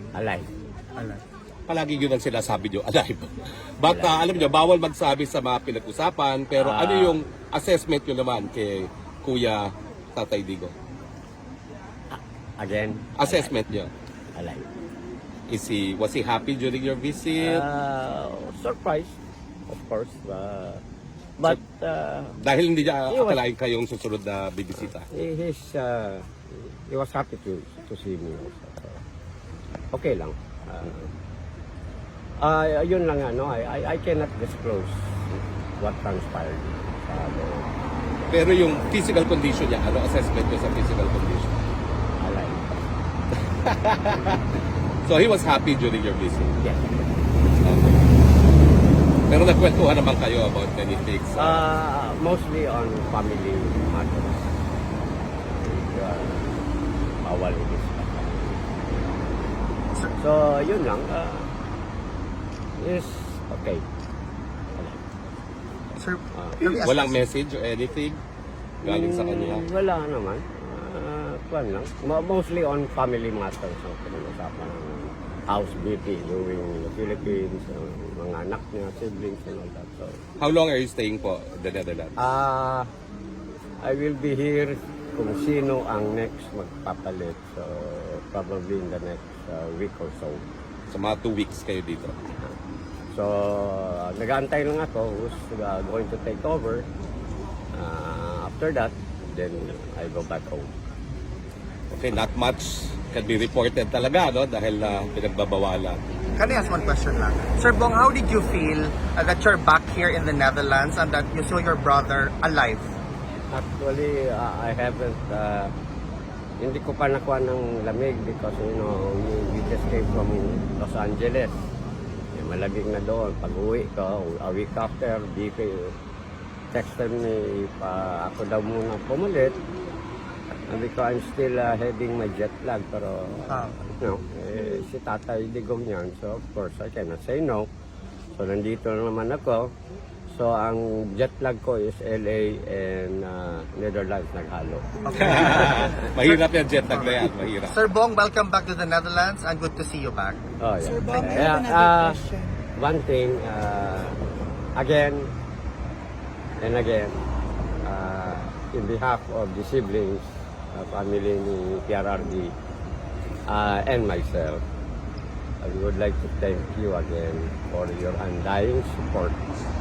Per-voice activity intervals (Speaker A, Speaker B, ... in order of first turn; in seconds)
Speaker A: 0.1-0.5, 3.8-4.6, 6.5-7.2, 12.1-13.6, 14.3-14.7, 17.4-19.2, 19.7-20.8, 21.4-22.4, 23.1-23.4, 25.1-29.0, 29.9-31.1, 32.4-37.7, 42.2-42.8, 46.6-47.0, 51.4-54.5, 55.4-56.5, 57.2-59.1, 60.2-61.5, 62.8-63.9, 64.8-65.0, 66.3-66.8, 68.8-80.2, 82.2-82.9, 83.8-90.4, 93.1-96.9, 97.7-100.7, 113.5-115.7, 116.6-121.6, 122.3-126.0, 126.7-129.6, 130.7-137.7, 138.4-139.7, 140.3-145.9, 150.6-152.2, 152.8-154.2, 154.8-155.3, 156.6-157.2, 157.8-162.5, 163.5-164.6, 165.6-169.4
Speaker B: 1.7-10.7, 13.2-13.9, 15.5-17.6, 22.4-25.1, 38.3-41.6, 43.7-44.4, 45.0-46.5, 47.6-48.0, 49.3-51.7, 66.8-68.2, 68.8-69.7, 80.4-82.1, 90.9-92.2, 101.9-106.0, 145.2-147.8
Speaker C: 66.0-67.2, 106.3-112.9, 133.5-133.8, 145.1-150.4, 151.1-151.5
Speaker D: 106.5-106.8, 150.8-152.6